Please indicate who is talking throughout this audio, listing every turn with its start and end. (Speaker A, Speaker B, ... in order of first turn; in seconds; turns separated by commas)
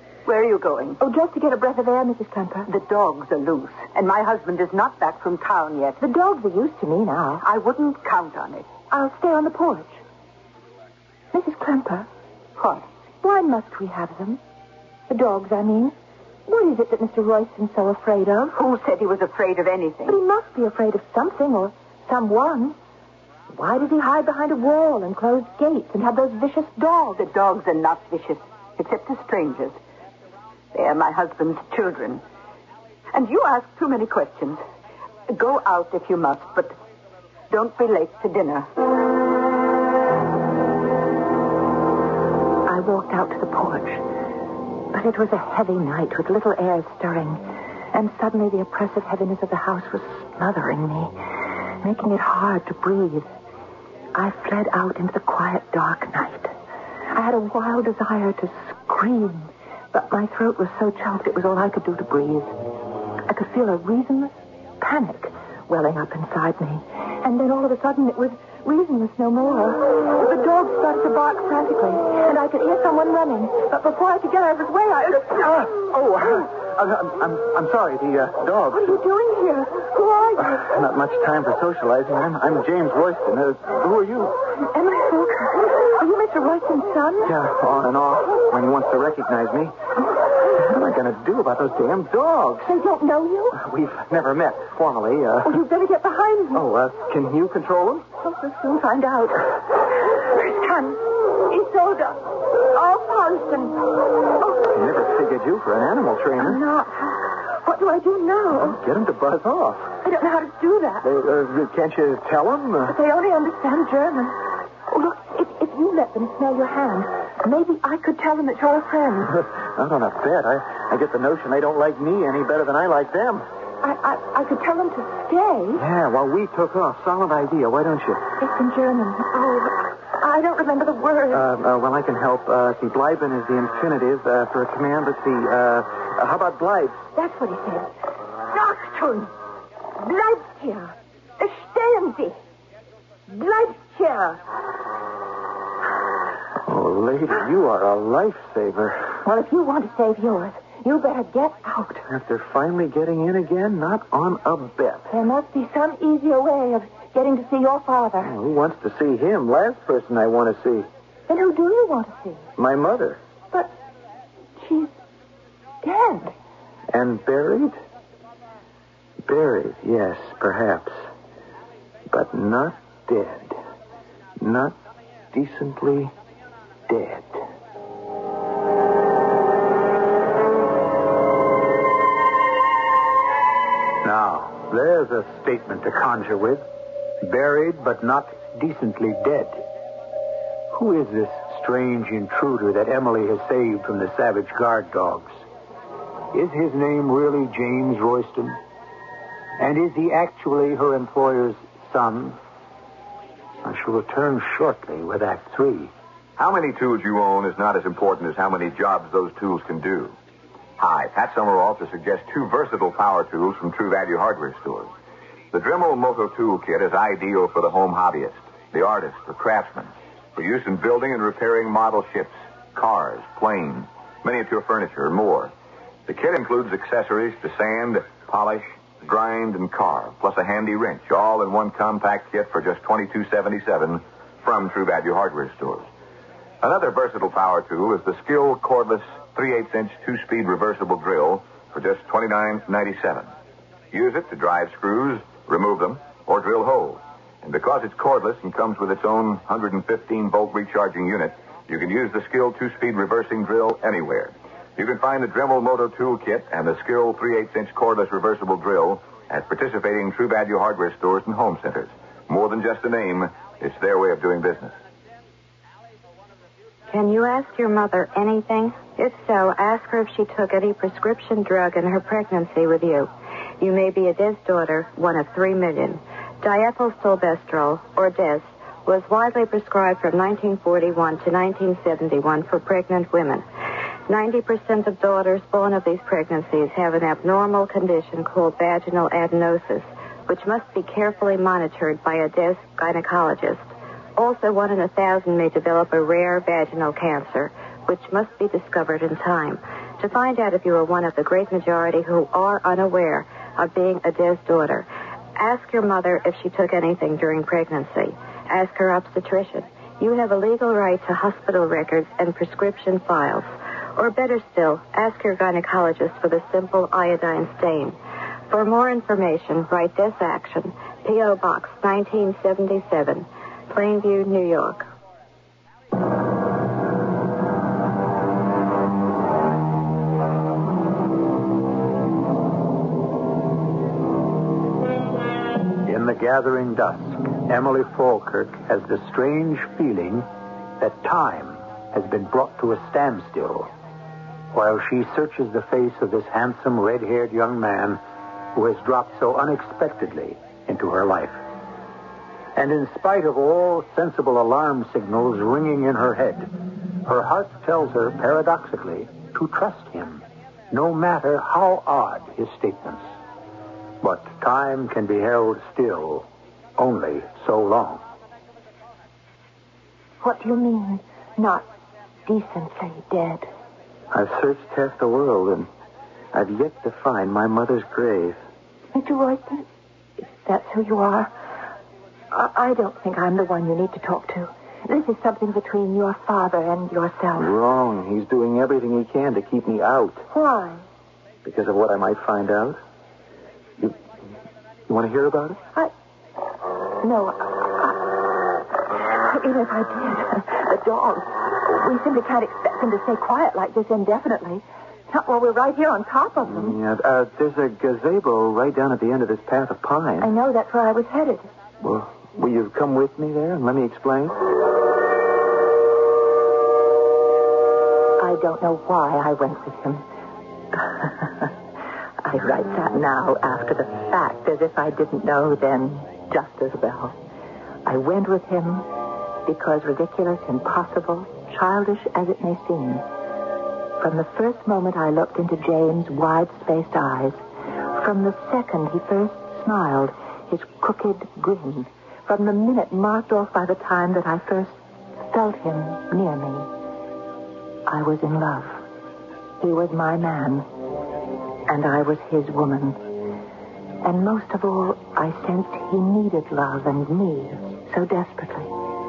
Speaker A: 0.2-1.0, Speaker B: 1.0-2.7, Speaker A: 2.7-6.0, Speaker B: 6.0-7.5, Speaker A: 7.4-8.7, Speaker B: 8.9-10.0, Speaker B: 11.3-12.1, Speaker A: 12.6-12.8, Speaker B: 13.2-14.4, Speaker B: 15.1-15.9, Speaker B: 16.5-18.6, Speaker A: 18.5-20.2, Speaker B: 20.1-22.8, Speaker B: 23.5-27.2, Speaker A: 27.2-29.8, Speaker A: 30.7-32.2, Speaker A: 33.1-34.6, Speaker A: 35.3-36.8, Speaker A: 37.5-38.7, Speaker B: 42.7-44.0, Speaker B: 44.9-51.2, Speaker B: 51.8-53.3, Speaker B: 54.1-56.5, Speaker B: 57.1-62.6, Speaker B: 63.3-75.7, Speaker C: 75.6-79.0, Speaker B: 78.7-80.7, Speaker C: 80.4-84.3, Speaker B: 84.6-87.3, Speaker C: 87.2-89.7, Speaker C: 90.5-92.7, Speaker B: 92.6-93.6, Speaker C: 93.5-95.6, Speaker B: 95.4-96.6, Speaker C: 96.5-98.0, Speaker B: 98.2-104.6, Speaker C: 104.7-106.6, Speaker B: 106.4-108.8, Speaker C: 108.5-109.9, Speaker B: 110.0-111.1, Speaker C: 111.0-113.0, Speaker B: 112.8-119.3, Speaker C: 119.3-123.4, Speaker B: 123.8-125.8, Speaker C: 125.7-128.3, Speaker B: 128.4-131.4, Speaker C: 131.3-137.1, Speaker B: 137.1-137.9, Speaker B: 138.5-139.3, Speaker B: 140.0-142.4, Speaker B: 143.3-144.4, Speaker C: 146.6-149.2, Speaker B: 149.2-152.1, Speaker C: 152.1-155.1, Speaker B: 155.1-158.3, Speaker C: 158.2-160.9, Speaker B: 161.3-162.5, Speaker C: 162.6-163.2, Speaker B: 164.6-165.0, Speaker B: 165.8-166.3, Speaker C: 166.9-167.8, Speaker C: 169.2-171.1, Speaker C: 172.1-173.6, Speaker C: 174.4-174.7, Speaker C: 175.3-176.1, Speaker C: 176.9-177.4, Speaker D: 184.0-186.6, Speaker D: 187.2-189.6, Speaker D: 190.7-195.4, Speaker D: 196.3-198.6, Speaker D: 199.6-202.4, Speaker D: 203.6-205.9, Speaker E: 206.4-210.2, Speaker E: 210.8-214.9, Speaker E: 215.5-225.5, Speaker E: 226.1-235.9, Speaker E: 236.6-243.3, Speaker E: 243.9-264.8, Speaker F: 266.9-283.4, Speaker F: 284.1-318.0, Speaker F: 318.5-324.9, Speaker D: 335.8-340.3, Speaker D: 340.8-343.7, Speaker D: 344.5-348.0, Speaker D: 348.5-351.4, Speaker D: 352.5-356.5, Speaker D: 357.0-363.1, Speaker D: 364.0-366.2, Speaker D: 366.8-368.0, Speaker B: 370.2-371.7, Speaker B: 372.2-373.5, Speaker C: 374.1-375.7, Speaker C: 376.3-378.4, Speaker B: 378.9-379.6, Speaker B: 380.2-381.3, Speaker B: 382.3-387.5, Speaker C: 387.4-390.2, Speaker B: 390.3-390.8, Speaker C: 391.4-392.8, Speaker C: 394.9-395.6, Speaker B: 397.0-398.2, Speaker B: 398.9-406.8, Speaker C: 406.5-410.3, Speaker B: 410.2-411.5, Speaker C: 411.8-414.4, Speaker B: 418.2-420.0, Speaker B: 420.7-421.5, Speaker B: 422.2-427.1, Speaker B: 427.9-428.9, Speaker B: 429.4-433.1, Speaker B: 434.0-446.7, Speaker B: 447.9-448.8, Speaker B: 449.6-450.7, Speaker B: 451.7-453.1, Speaker B: 454.0-458.7